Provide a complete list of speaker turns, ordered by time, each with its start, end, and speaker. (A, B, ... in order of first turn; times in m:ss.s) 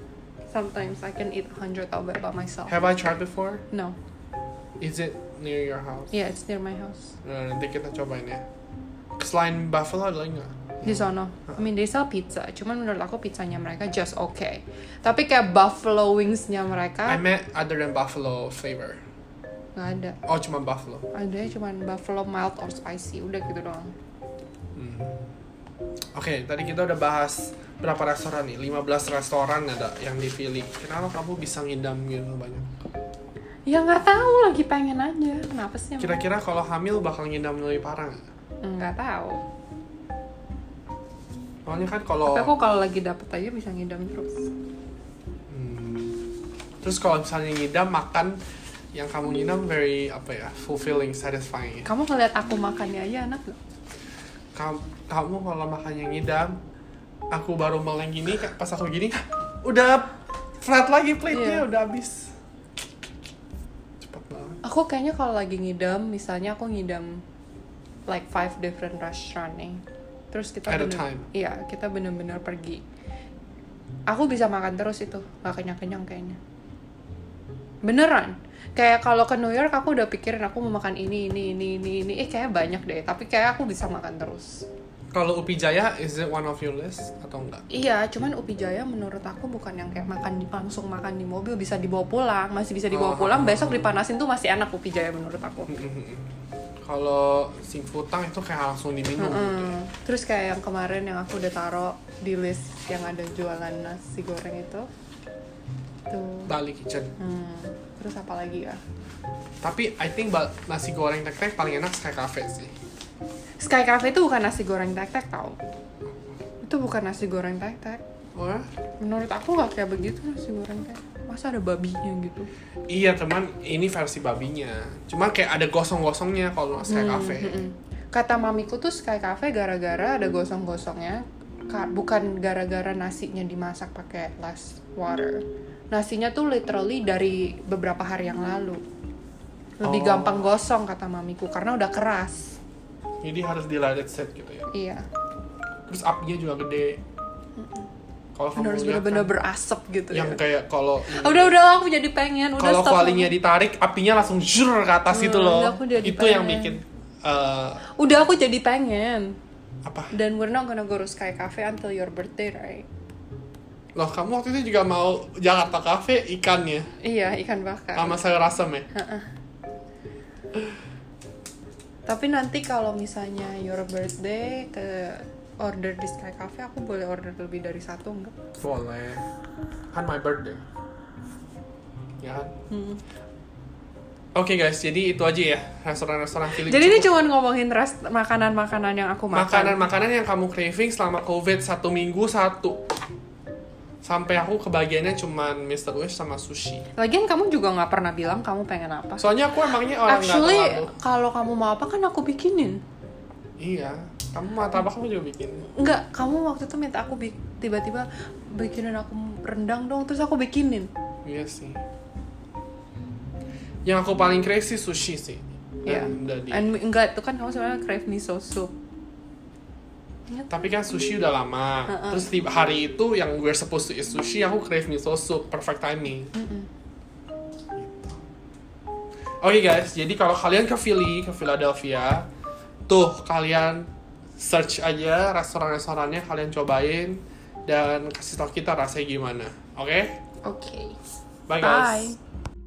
0:00.5-0:02.9 A
0:02.7-0:03.6 B
0:04.8-0:06.1 B
0:06.1-0:07.1 A
0:07.2-0:08.4 B
0:09.2-0:11.1 B
0:10.8-0:17.2 A
0:17.0-0:19.0 B
0:19.7-0:20.2 A
0:20.2-0:21.1 B
0:21.1-0:23.9 A
0:24.7-0:25.3 B
0:26.1-0:32.7 B
0:33.7-0:36.2 A
0:36.0-0:38.2 B
0:38.6-0:39.4 A
0:41.6-0:42.5 B
0:42.2-0:44.5 A
0:45.5-0:46.2 B
0:46.8-0:48.4 B
0:48.9-0:51.9 B
0:51.8-0:53.6 A
0:54.5-0:56.6 B
0:57.3-1:02.3 B
1:01.3-1:01.6 A
1:04.0-1:04.6 B
1:04.6-1:07.2 A
1:08.1-1:12.8 A
1:10.7-1:11.3 B
1:14.1-1:16.4 A
1:17.8-1:24.6 A
1:25.1-1:27.6 B
1:27.7-1:35.7 A
1:32.9-1:33.9 B
1:35.7-1:39.8 B
1:39.2-1:44.9 A
1:46.1-1:46.5 A
1:46.5-1:47.1 B
1:47.2-1:48.8 A
1:49.6-1:52.7 B
1:53.6-1:55.6 A
1:56.6-1:58.0 A
1:58.3-1:58.7 B
1:59.0-2:02.5 A
2:02.9-2:07.6 B
2:06.8-2:18.8 A
2:19.8-2:22.6 A
2:19.8-2:20.6 B
2:23.2-2:24.7 B
2:24.7-2:25.0 A
2:25.9-2:27.0 B
2:27.6-2:27.9 A
2:28.4-2:29.4 B
2:28.5-2:30.4 A
2:30.1-2:31.6 B
2:31.1-2:33.3 A
2:32.6-2:37.9 B
2:35.1-2:36.8 A
2:37.9-2:39.4 A
2:39.8-2:40.1 B
2:40.1-2:42.9 A
2:44.0-2:46.9 B
2:47.0-2:48.3 A
2:48.0-2:48.9 B
2:48.9-2:49.3 A
2:52.0-2:58.4 A
2:58.6-2:59.2 B
2:59.9-3:00.6 B
3:02.2-3:02.5 B
3:02.7-3:03.0 A
3:04.3-3:07.2 B
3:06.5-3:09.8 A
3:09.3-3:12.8 B
3:14.0-3:16.8 B
3:17.0-3:19.2 A
3:19.2-3:20.9 B
3:20.0-3:22.8 A
3:23.6-3:25.7 B
3:25.8-3:30.9 A
3:31.2-3:31.8 B
3:33.8-3:36.7 B
3:35.8-3:38.7 A
3:40.5-3:46.3 B
3:41.9-3:42.2 A
3:46.3-3:46.7 A
3:47.7-3:48.2 B
3:49.4-3:52.3 B
3:52.9-4:00.2 B
4:00.4-4:01.0 A
4:01.5-4:02.1 B
4:01.6-4:02.2 A